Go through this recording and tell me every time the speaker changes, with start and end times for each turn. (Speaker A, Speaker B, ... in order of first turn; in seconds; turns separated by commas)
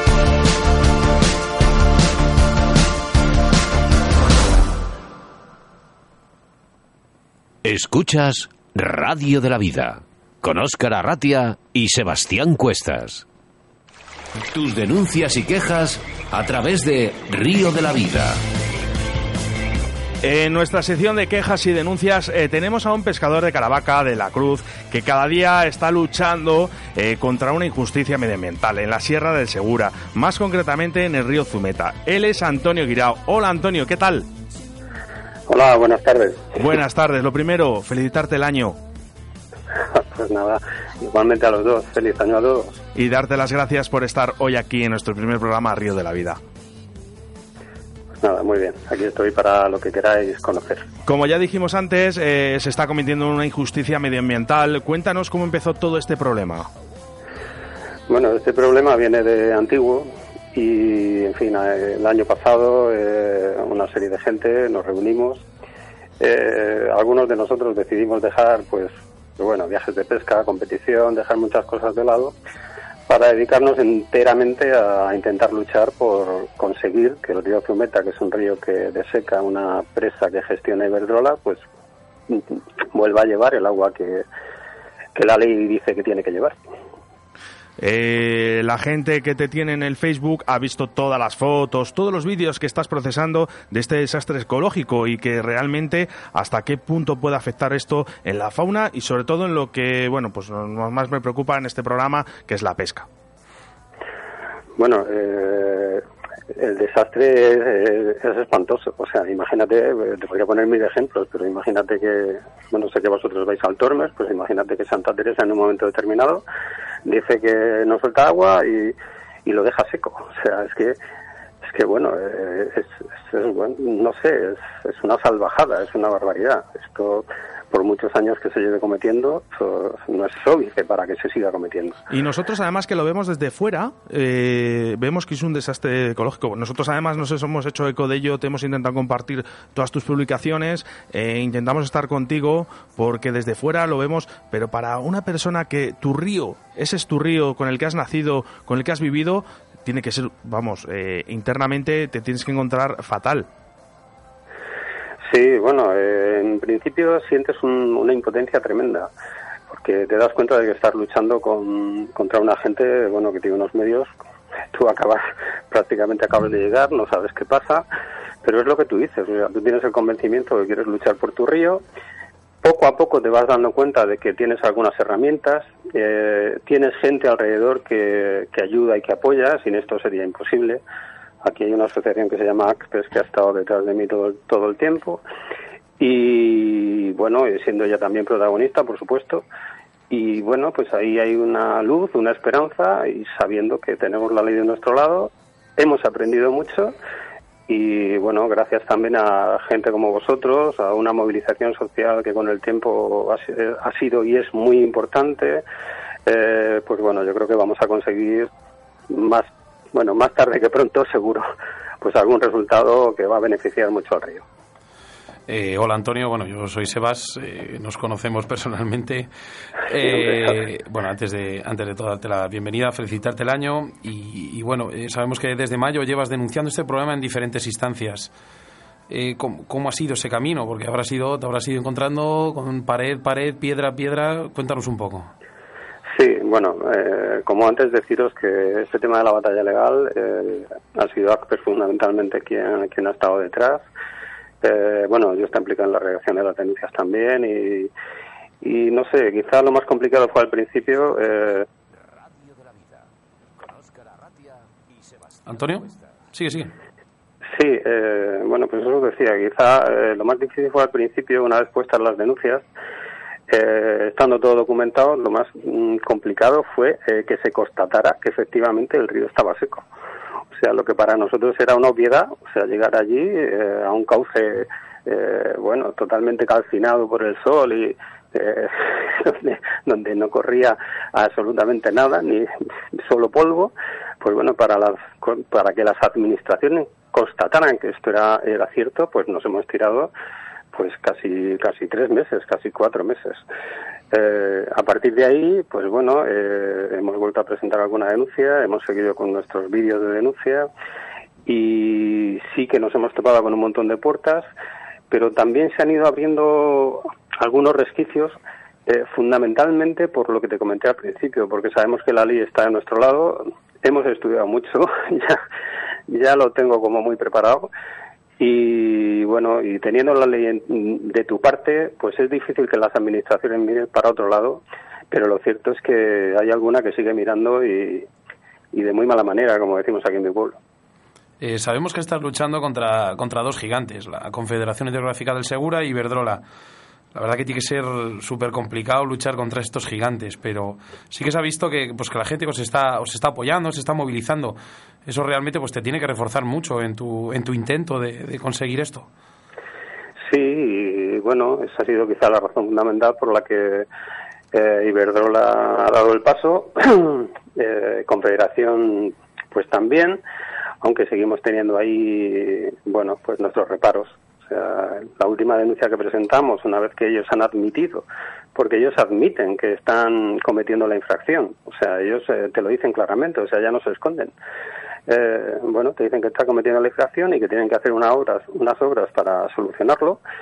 Speaker A: 7.6-13.2, Speaker A: 14.5-18.4, Speaker B: 20.2-34.3, Speaker C: 35.5-36.6, Speaker B: 36.6-38.8, Speaker C: 39.8-42.8, Speaker B: 43.0-46.4, Speaker C: 48.2-50.9, Speaker B: 51.0-56.7, Speaker C: 58.1-65.4, Speaker C: 66.2-72.3, Speaker C: 73.1-81.6, Speaker C: 82.3-84.3, Speaker C: 85.2-86.6, Speaker B: 87.8-103.1, Speaker C: 104.8-116.4, Speaker C: 117.0-121.0, Speaker C: 121.6-132.0, Speaker B: 132.1-153.5, Speaker C: 155.2-159.1, Speaker C: 159.7-164.2, Speaker C: 164.7-167.9, Speaker C: 168.4-171.8, Speaker C: 172.6-180.8, Speaker C: 181.4-185.2, Speaker C: 186.0-189.4, Speaker C: 190.1-197.0, Speaker C: 197.7-205.6, Speaker C: 206.3-208.5, Speaker C: 209.1-211.5, Speaker C: 212.0-214.4, Speaker D: 215.5-219.3, Speaker D: 219.8-228.3, Speaker C: 220.0-220.6, Speaker D: 229.1-235.3, Speaker C: 236.2-243.9, Speaker C: 244.6-247.9, Speaker C: 248.6-251.7, Speaker A: 252.2-256.0, Speaker D: 255.5-256.7, Speaker C: 257.5-262.7, Speaker C: 263.5-269.9, Speaker C: 270.6-290.1, Speaker C: 290.7-293.4, Speaker C: 294.1-300.7, Speaker C: 301.5-304.5, Speaker C: 305.1-315.4, Speaker C: 316.1-317.7, Speaker C: 318.4-328.1, Speaker C: 328.7-330.6, Speaker D: 331.4-336.4, Speaker D: 337.1-349.1, Speaker C: 350.2-353.9, Speaker C: 354.5-360.2, Speaker C: 360.8-374.3, Speaker C: 375.1-380.2